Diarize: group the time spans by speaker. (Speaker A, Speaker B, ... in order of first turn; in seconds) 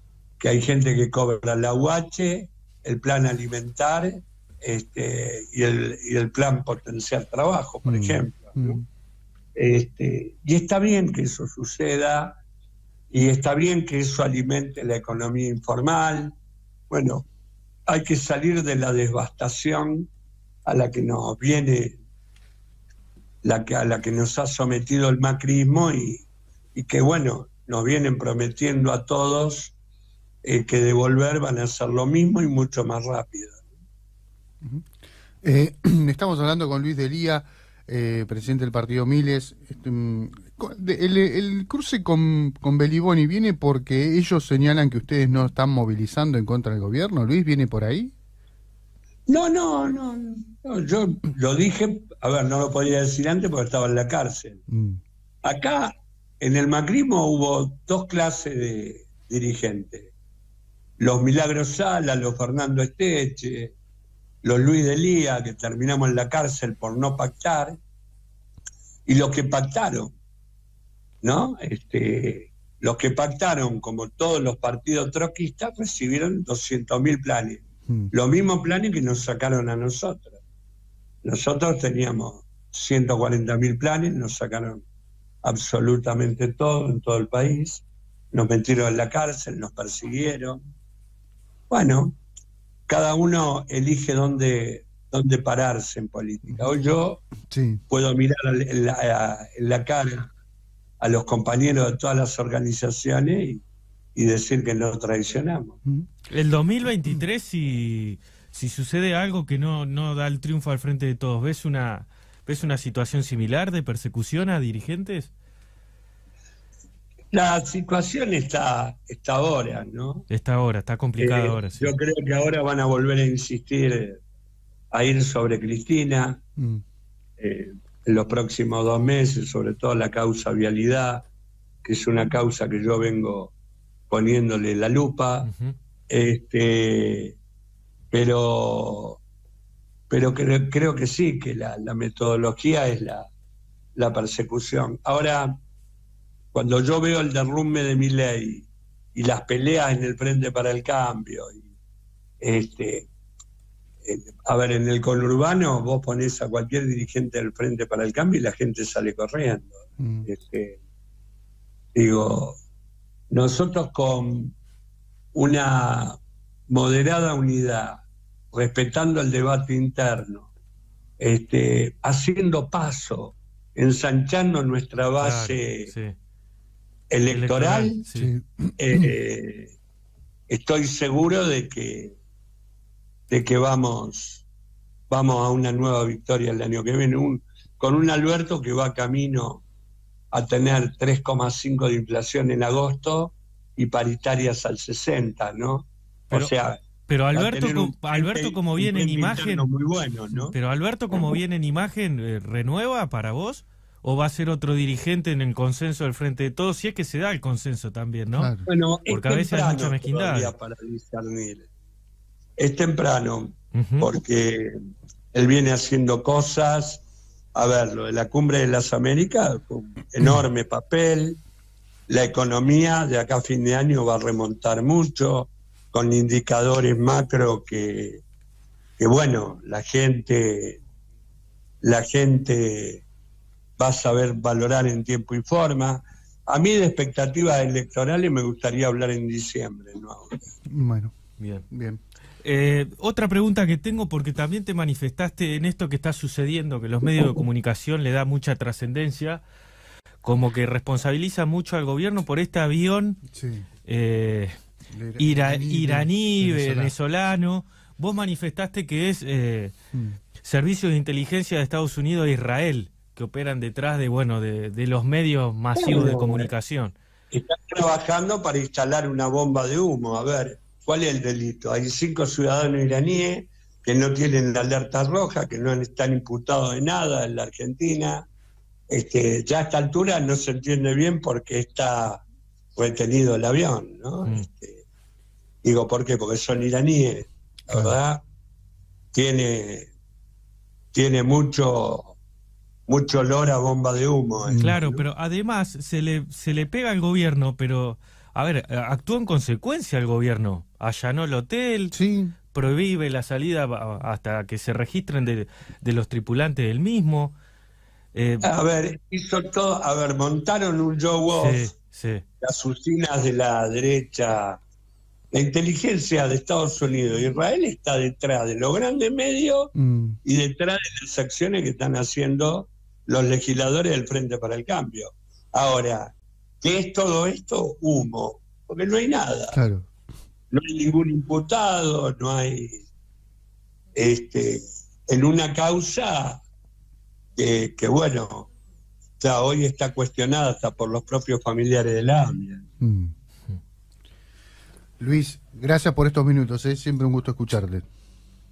Speaker A: 0.4-8.8, 9.5-12.4, 13.1-16.4, 16.9-17.2, 17.9-20.1, 20.6-22.0, 23.4-29.7, 30.4-33.6, 49.3-54.6, 55.4-60.1, 61.0-63.8, 64.4-67.8, 69.0-70.1, 71.2-80.4, 81.2-84.8, 85.4-90.6, 91.7-92.2, 92.9-97.2, 97.9-100.3, 101.0-105.8, 117.3-120.2, 121.2-124.2, 124.9-126.4, 127.4-131.3, 131.8-133.5, 134.1-135.5, 136.1-137.4, 138.1-139.2, 140.1-143.3, 143.9-145.6, 146.5-151.7, 152.4-153.1, 154.0-160.8, 161.9-162.6, 163.3-164.6, 165.3-170.5, 171.2-175.9, 177.1-178.0, 178.8-179.8, 180.5-182.2, 183.3-184.4, 185.1-189.6, 190.3-200.6, 208.7-211.7, 212.6-214.7, 215.3-217.0, 217.5-221.4, 222.1-228.2, 229.0-230.8, 231.8-233.1, 233.8-240.4, 265.8-266.5, 267.3-278.3, 278.9-282.2, 282.8-284.8, 285.6-288.2, 289.1-289.9, 290.9-292.1, 292.9-295.0, 308.4-311.7, 312.4-314.6, 315.3-319.7, 320.2-329.6, 330.5-332.8, 333.9-336.4, 337.4-338.5, 339.2-342.6
Speaker B: 7.8-8.8, 35.4-48.1, 54.7-55.0, 97.5-97.8, 160.0-160.3, 178.1-179.1, 208.3-208.6, 240.7-241.1, 241.7-242.0, 253.3-253.7, 254.9-256.9, 259.9-260.2, 287.7-287.9, 294.4-294.8, 301.9-302.3, 319.8-320.2, 329.5-329.9, 342.8-343.1, 345.0-347.8
Speaker C: 106.3-115.3, 120.3-121.9, 135.4-135.7, 175.2-176.2, 177.3-178.3, 197.1-199.7, 200.5-208.5, 209.1-210.5, 213.7-214.1, 241.4-241.6, 242.4-249.4, 250.2-253.2, 253.9-254.6, 255.2-259.7, 260.4-266.9, 294.5-301.9, 302.5-307.4, 308.1-308.4, 311.3-312.2